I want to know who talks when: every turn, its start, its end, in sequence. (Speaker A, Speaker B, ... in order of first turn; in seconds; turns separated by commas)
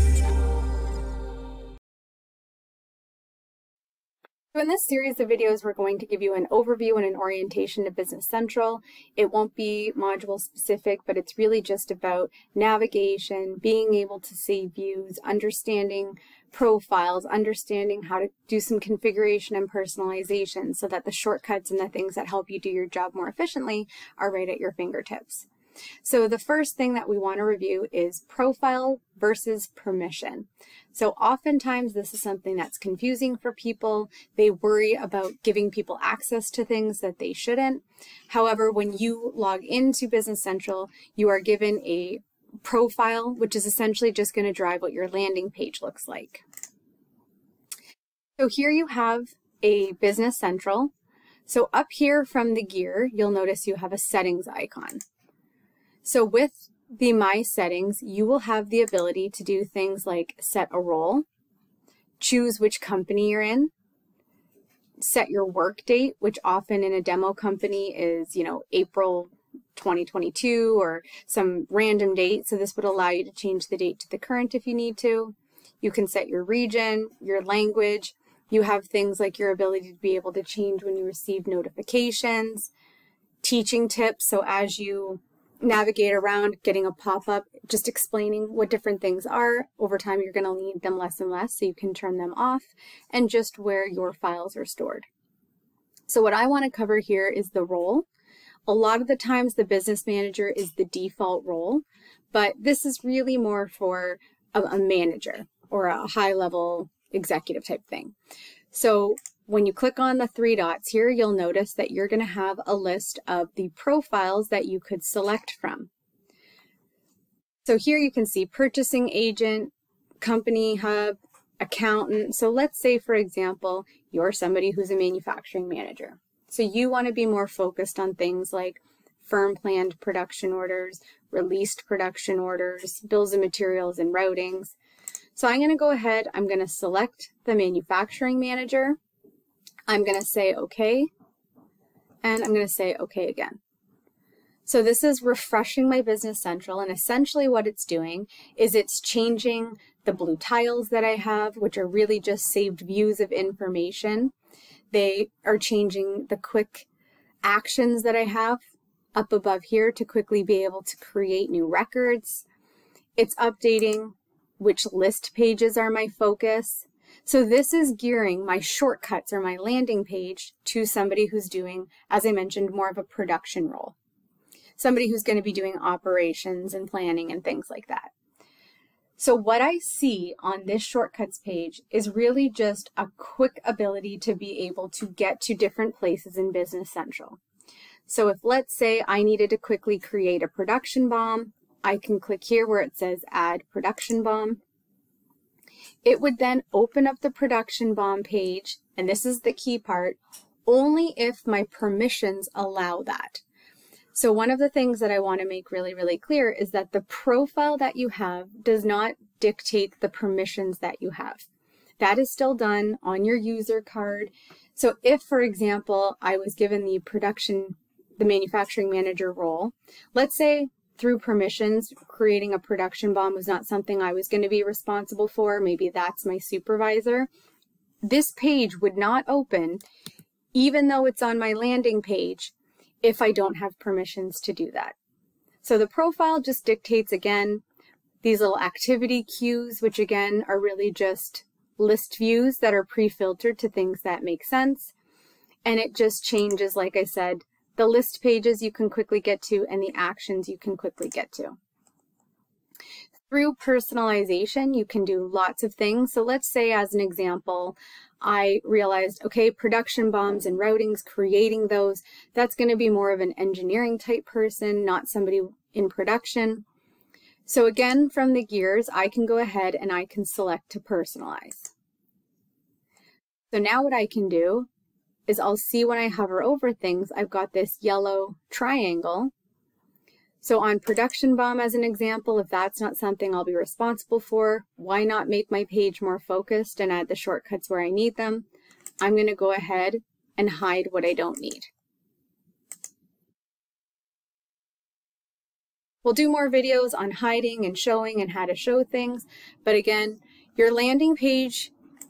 Speaker A: 4.5-25.5, Speaker A: 26.0-46.4, Speaker A: 48.4-50.9, Speaker A: 51.5-55.0, Speaker A: 56.0-61.2, Speaker A: 62.2-63.7, Speaker A: 65.0-82.7, Speaker A: 83.4-95.1, Speaker A: 96.1-98.1, Speaker A: 98.7-108.1, Speaker A: 108.7-115.9, Speaker A: 117.7-134.8, Speaker A: 135.3-139.0, Speaker A: 139.9-141.1, Speaker A: 142.2-143.6, Speaker A: 144.7-154.3, Speaker A: 154.9-156.9, Speaker A: 157.4-158.6, Speaker A: 159.2-162.4, Speaker A: 163.2-174.0, Speaker A: 174.8-178.1, Speaker A: 179.2-187.4, Speaker A: 188.1-194.6, Speaker A: 196.0-203.4, Speaker A: 204.1-211.5, Speaker A: 212.0-227.3, Speaker A: 228.0-229.8, Speaker A: 230.5-234.9, Speaker A: 235.6-237.6, Speaker A: 238.2-244.9, Speaker A: 245.7-251.6, Speaker A: 253.3-266.6, Speaker A: 267.5-271.7, Speaker A: 273.5-274.7, Speaker A: 275.3-279.3, Speaker A: 280.4-288.5, Speaker A: 289.0-291.7, Speaker A: 296.0-301.7